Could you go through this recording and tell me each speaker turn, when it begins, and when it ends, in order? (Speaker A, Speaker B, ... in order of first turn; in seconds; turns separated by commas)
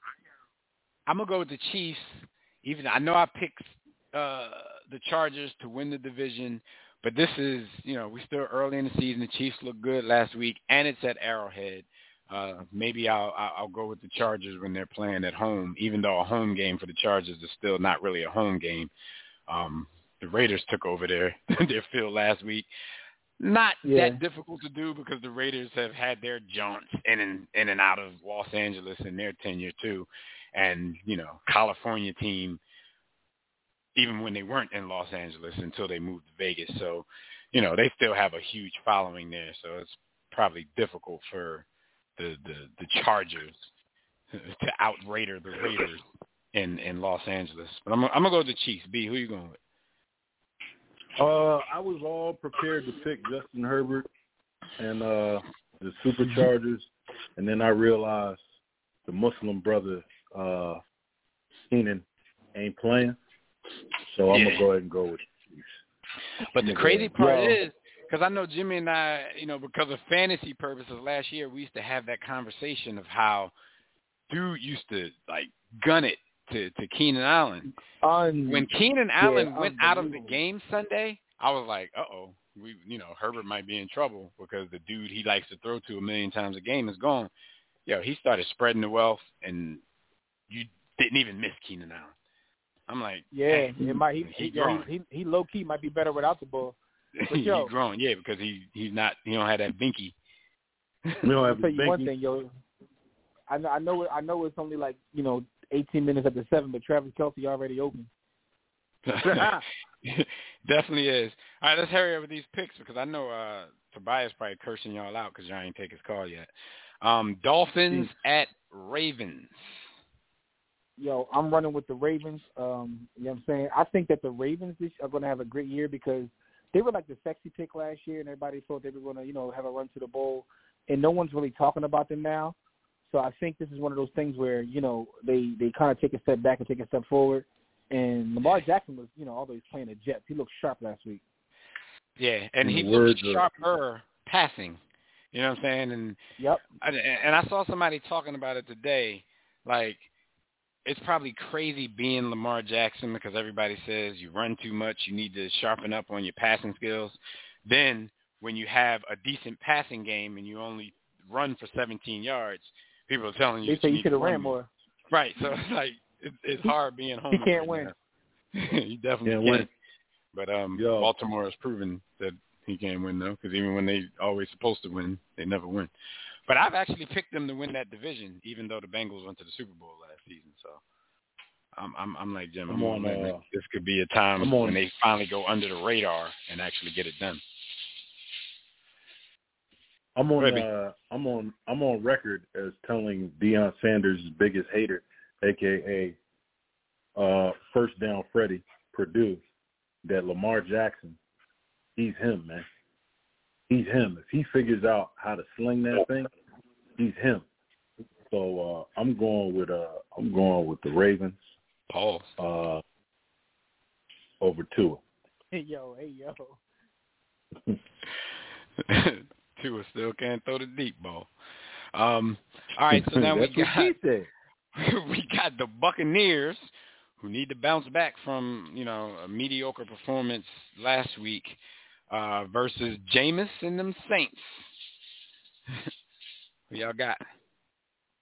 Speaker A: 1.1-18.9, Speaker A: 19.5-22.7, Speaker A: 23.4-32.6, Speaker B: 23.8-24.2, Speaker A: 34.0-41.6, Speaker A: 42.2-43.7, Speaker A: 44.3-46.0, Speaker A: 46.5-49.6, Speaker C: 51.1-54.0, Speaker C: 54.8-58.4, Speaker C: 59.0-60.8, Speaker C: 61.7-63.2, Speaker C: 64.1-65.8, Speaker A: 64.3-64.7, Speaker A: 66.5-73.5, Speaker C: 66.6-67.6, Speaker A: 74.3-77.7, Speaker B: 78.0-78.7, Speaker A: 78.5-87.3, Speaker B: 79.2-80.4, Speaker A: 87.8-89.8, Speaker A: 90.5-92.1, Speaker A: 92.9-94.9, Speaker B: 93.3-96.8, Speaker A: 97.2-100.1, Speaker B: 97.3-97.7, Speaker C: 101.2-102.1, Speaker B: 101.5-102.5, Speaker B: 103.5-108.1, Speaker A: 109.0-116.5, Speaker B: 109.2-109.6, Speaker A: 117.0-119.7, Speaker B: 121.0-132.5, Speaker B: 133.1-141.2, Speaker A: 142.2-144.8, Speaker C: 142.6-143.5, Speaker A: 145.3-146.2, Speaker A: 146.8-150.0, Speaker A: 150.8-164.6, Speaker B: 163.6-164.7, Speaker A: 165.1-167.9, Speaker B: 167.3-167.9, Speaker A: 168.6-169.7, Speaker C: 169.2-169.7, Speaker A: 170.3-175.9, Speaker C: 170.7-171.1, Speaker A: 176.5-180.8, Speaker A: 181.8-187.4, Speaker C: 182.7-183.4, Speaker C: 184.4-184.8, Speaker C: 190.2-196.2, Speaker A: 190.4-190.7, Speaker C: 197.1-199.4, Speaker C: 200.0-201.2, Speaker C: 201.9-202.7, Speaker C: 203.7-206.3, Speaker C: 207.0-207.4, Speaker C: 208.3-211.4, Speaker A: 211.9-212.3, Speaker C: 212.4-212.8, Speaker C: 214.4-215.0, Speaker B: 215.5-216.6, Speaker A: 218.8-221.3, Speaker A: 221.9-223.9, Speaker C: 222.9-224.3, Speaker A: 224.8-226.7, Speaker A: 227.2-231.6, Speaker A: 232.1-234.7, Speaker A: 236.7-237.2